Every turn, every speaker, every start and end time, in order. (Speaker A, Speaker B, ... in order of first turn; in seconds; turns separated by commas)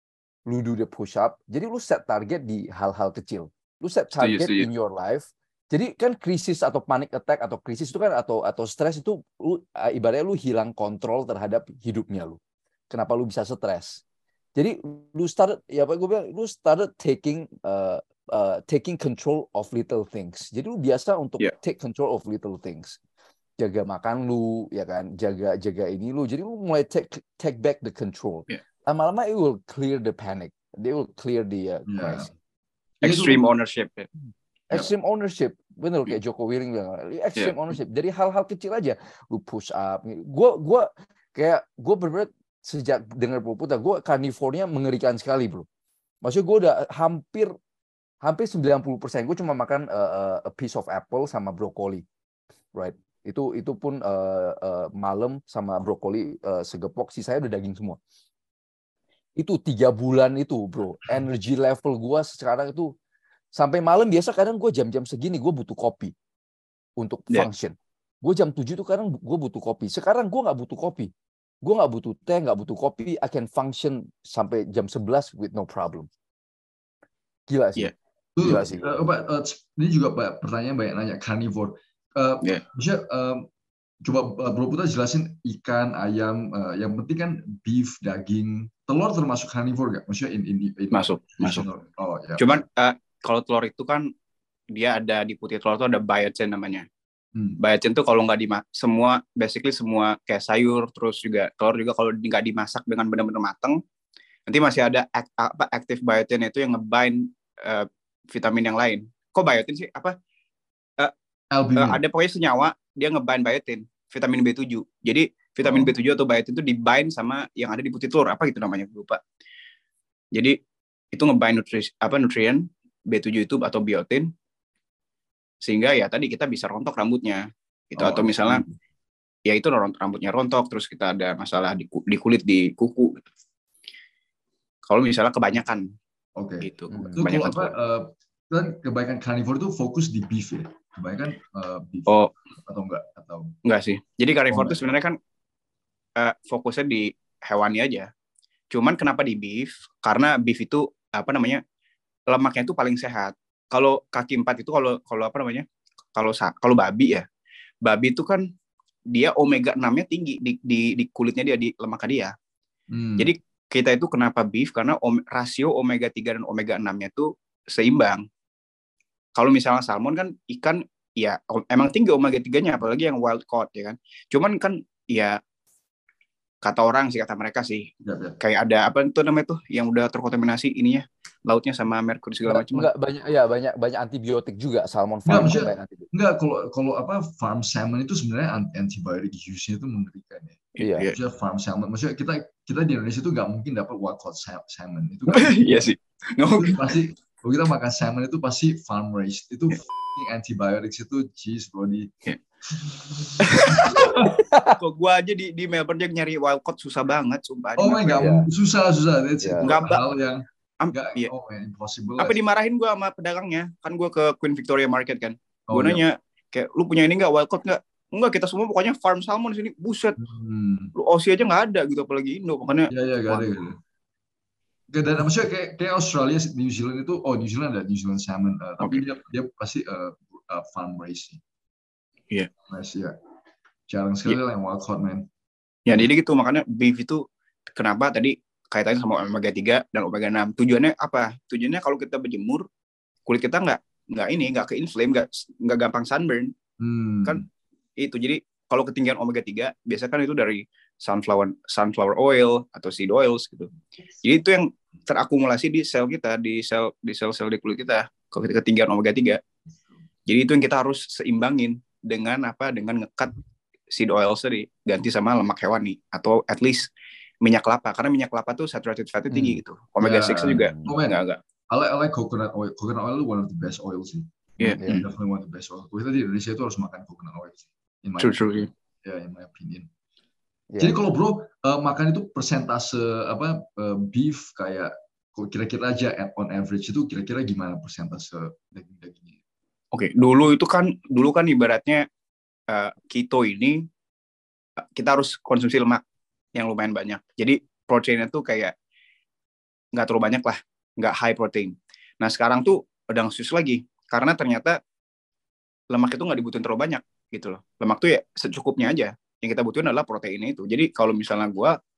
Speaker A: 0.5-12.4, Speaker B: 4.2-4.7, Speaker A: 12.9-14.0, Speaker A: 14.6-23.0, Speaker A: 23.6-32.3, Speaker C: 31.9-32.3, Speaker C: 33.0-33.4, Speaker B: 33.0-34.1, Speaker A: 34.7-45.6, Speaker A: 46.2-47.5, Speaker A: 48.2-52.0, Speaker A: 52.7-58.0, Speaker A: 59.4-62.9, Speaker A: 63.5-66.1, Speaker A: 67.0-71.1, Speaker A: 71.6-76.1, Speaker A: 77.5-77.9, Speaker C: 78.3-83.4, Speaker A: 78.4-79.0, Speaker C: 84.0-92.6, Speaker B: 90.9-91.6, Speaker B: 92.4-94.1, Speaker B: 94.7-96.9, Speaker C: 97.3-97.6, Speaker B: 97.6-103.8, Speaker B: 104.5-110.1, Speaker C: 111.5-112.0, Speaker B: 111.8-119.2, Speaker C: 115.6-115.9, Speaker B: 121.1-124.3, Speaker B: 125.6-128.6, Speaker C: 128.0-128.7, Speaker B: 129.5-133.2, Speaker B: 134.9-135.9, Speaker C: 136.4-143.5, Speaker B: 136.6-137.7, Speaker A: 136.9-137.2, Speaker B: 142.1-142.3, Speaker B: 143.6-145.1, Speaker C: 144.5-144.8, Speaker B: 146.2-148.1, Speaker B: 148.7-151.6, Speaker B: 152.3-157.2, Speaker B: 157.8-158.4, Speaker B: 159.1-162.3, Speaker C: 162.9-163.3, Speaker B: 163.2-168.2, Speaker B: 169.3-175.4, Speaker B: 176.6-177.9, Speaker C: 178.0-178.4, Speaker B: 178.4-182.9, Speaker A: 182.4-186.1, Speaker C: 185.2-195.8, Speaker A: 190.8-191.1, Speaker B: 190.8-191.2, Speaker B: 195.3-196.9, Speaker C: 196.6-202.1, Speaker C: 202.7-204.4, Speaker B: 203.4-203.9, Speaker A: 204.4-204.8, Speaker B: 204.8-208.3, Speaker C: 207.8-212.4, Speaker A: 208.2-208.5, Speaker A: 209.4-209.7, Speaker B: 209.7-210.0, Speaker B: 210.8-211.3, Speaker B: 212.2-220.2, Speaker C: 215.7-216.0, Speaker C: 220.2-220.9, Speaker B: 220.9-223.5, Speaker C: 222.9-223.8, Speaker C: 224.9-231.4, Speaker C: 232.7-233.1, Speaker C: 233.9-235.3, Speaker B: 235.8-242.7, Speaker B: 243.2-246.5, Speaker C: 246.8-247.4, Speaker B: 248.0-253.7, Speaker B: 254.2-259.4, Speaker B: 260.3-263.3, Speaker B: 263.9-266.9, Speaker B: 267.4-271.4, Speaker A: 269.3-269.6, Speaker C: 270.0-278.5, Speaker A: 270.5-270.9, Speaker B: 274.6-275.0, Speaker A: 274.8-275.1, Speaker B: 278.2-278.7, Speaker C: 279.0-279.9, Speaker A: 280.7-281.0, Speaker C: 280.8-289.4, Speaker B: 289.9-292.1, Speaker B: 292.7-293.8, Speaker B: 294.8-296.0, Speaker B: 296.5-298.7, Speaker B: 299.9-304.8, Speaker B: 305.9-311.8